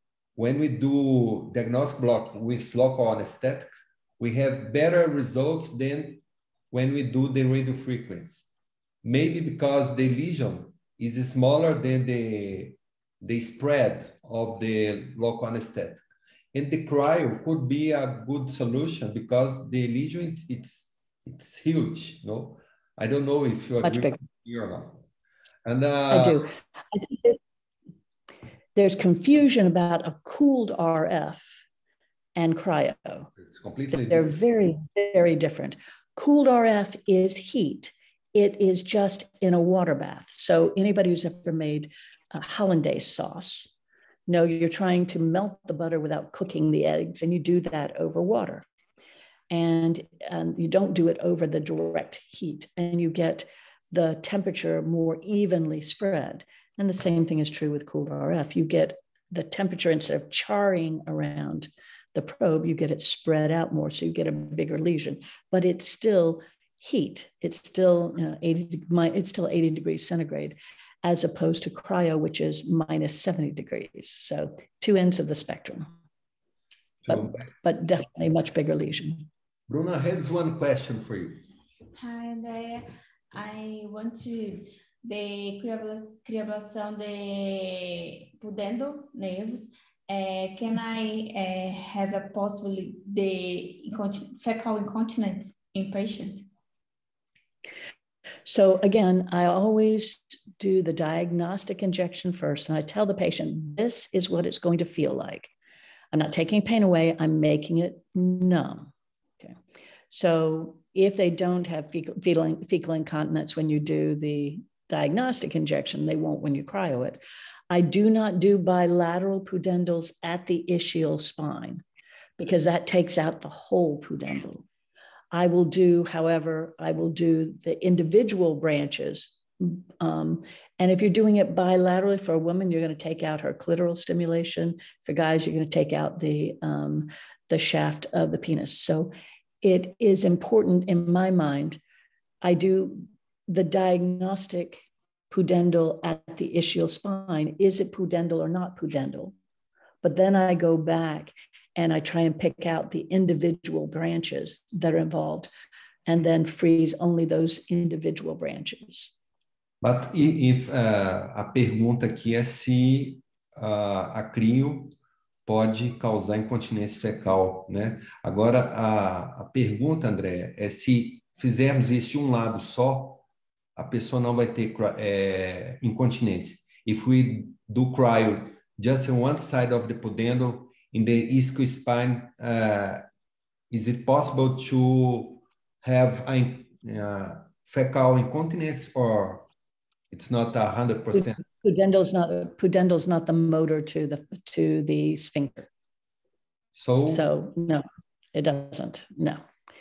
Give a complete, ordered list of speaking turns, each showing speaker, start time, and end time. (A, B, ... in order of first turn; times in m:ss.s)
0:00.4-0:08.5 A
0:09.0-0:16.0 A
0:16.5-0:25.0 A
0:23.8-0:24.2 B
0:25.6-0:26.5 A
0:26.1-0:27.4 B
0:28.8-0:31.6 B
0:32.4-0:33.3 B
0:33.4-0:34.3 A
0:33.9-0:43.7 B
0:44.3-0:48.6 B
0:49.5-1:15.9 B
1:17.1-1:17.4 A
1:17.1-1:19.3 B
1:19.7-1:21.4 A
1:21.9-1:36.5 C
1:38.5-1:45.5 B
1:46.1-1:48.9 B
1:50.1-2:01.8 B
2:02.4-2:04.7 B
2:05.3-2:19.1 B
2:19.6-2:21.8 B
2:22.4-2:29.3 B
2:30.0-2:35.5 B
2:36.1-2:39.1 B
2:39.8-2:45.0 A
2:45.5-2:53.2 A
2:53.8-3:03.0 A
3:03.7-3:09.5 A
3:10.1-3:11.4 A
3:11.1-3:15.7 B
3:16.8-3:17.3 A
3:17.1-3:19.4 B